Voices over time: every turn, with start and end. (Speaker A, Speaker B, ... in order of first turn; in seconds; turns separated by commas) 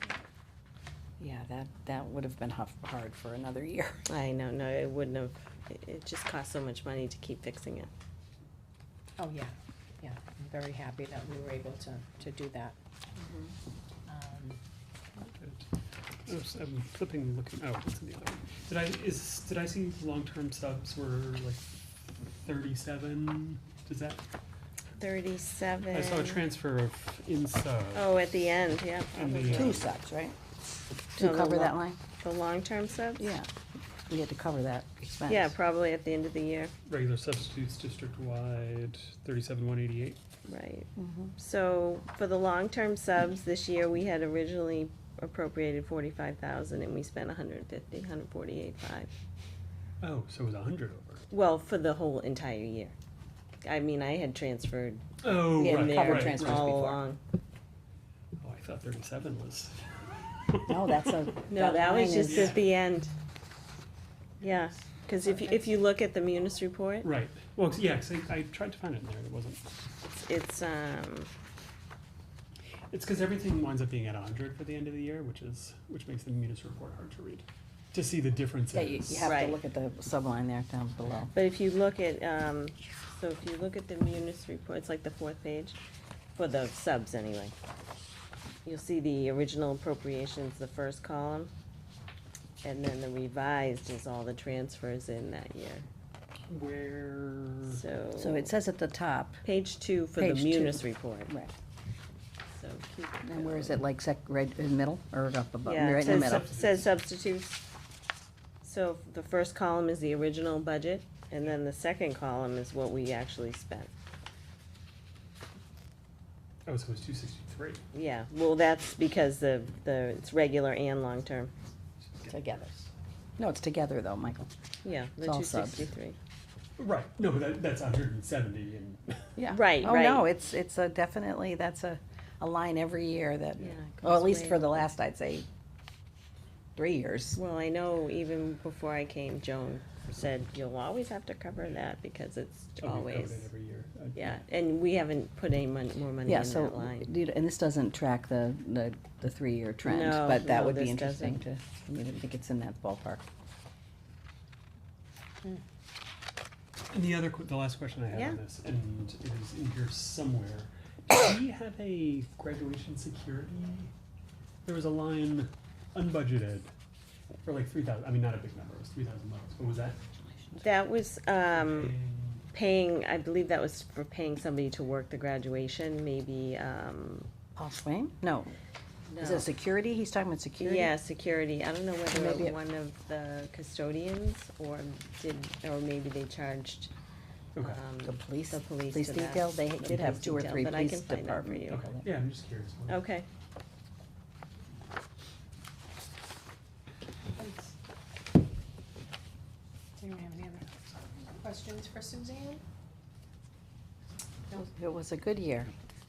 Speaker A: 1.2-4.1, Speaker B: 4.1-7.9, Speaker C: 9.2-12.8, Speaker B: 13.2-13.5, Speaker C: 14.1-14.6, Speaker D: 15.4-15.7, Speaker D: 16.3-21.6, Speaker D: 22.4-24.2, Speaker B: 25.0-26.5, Speaker D: 25.9-28.3, Speaker B: 27.9-29.9, Speaker D: 29.1-29.9, Speaker A: 29.5-30.3, Speaker A: 31.1-32.0, Speaker B: 31.2-33.3, Speaker A: 33.2-33.5, Speaker A: 34.1-35.5, Speaker B: 35.3-36.7, Speaker D: 36.9-40.2, Speaker B: 40.5-49.1, Speaker A: 41.0-41.3, Speaker D: 50.0-51.2, Speaker B: 51.3-52.9, Speaker B: 53.6-57.2, Speaker D: 55.2-57.0, Speaker A: 55.5-56.9, Speaker D: 58.4-59.8, Speaker D: 60.5-61.1, Speaker A: 60.7-62.6, Speaker B: 61.5-63.1, Speaker D: 62.1-62.7, Speaker B: 64.4-67.1, Speaker D: 67.0-69.7, Speaker B: 70.2-71.3, Speaker D: 72.9-79.4, Speaker A: 78.7-81.3, Speaker B: 79.2-79.6, Speaker B: 81.3-85.8, Speaker B: 86.3-87.5, Speaker B: 88.6-91.5, Speaker B: 92.6-95.8, Speaker D: 96.5-97.8, Speaker B: 97.7-98.5, Speaker A: 98.2-99.4, Speaker B: 99.4-101.3, Speaker A: 100.2-101.5, Speaker B: 102.5-103.8, Speaker A: 103.2-106.5, Speaker B: 105.6-107.6, Speaker D: 106.0-106.9, Speaker B: 108.6-113.9, Speaker D: 116.6-117.8, Speaker B: 117.9-121.5, Speaker D: 122.0-122.5, Speaker A: 122.2-122.8, Speaker A: 123.4-124.5, Speaker B: 124.8-126.2, Speaker A: 125.2-125.9, Speaker D: 126.8-129.2, Speaker A: 129.4-135.4, Speaker B: 129.5-130.3, Speaker B: 133.6-134.9, Speaker A: 136.8-137.4, Speaker B: 137.3-143.5, Speaker D: 142.8-144.4, Speaker B: 144.1-147.1, Speaker A: 146.2-153.2, Speaker B: 149.8-151.4, Speaker D: 156.9-163.9, Speaker B: 158.1-158.4, Speaker D: 164.6-166.7, Speaker D: 167.4-170.0, Speaker B: 170.6-171.9, Speaker D: 171.5-172.4, Speaker B: 172.5-177.3, Speaker A: 177.6-178.5, Speaker B: 179.1-179.5, Speaker A: 179.2-180.9, Speaker B: 180.6-186.9, Speaker A: 182.1-182.6, Speaker D: 187.5-187.8, Speaker B: 187.6-191.8, Speaker A: 188.0-192.1, Speaker D: 191.7-193.0, Speaker B: 192.9-193.3, Speaker C: 197.3-197.7, Speaker C: 200.0-200.7, Speaker C: 201.4-202.6, Speaker A: 204.5-205.7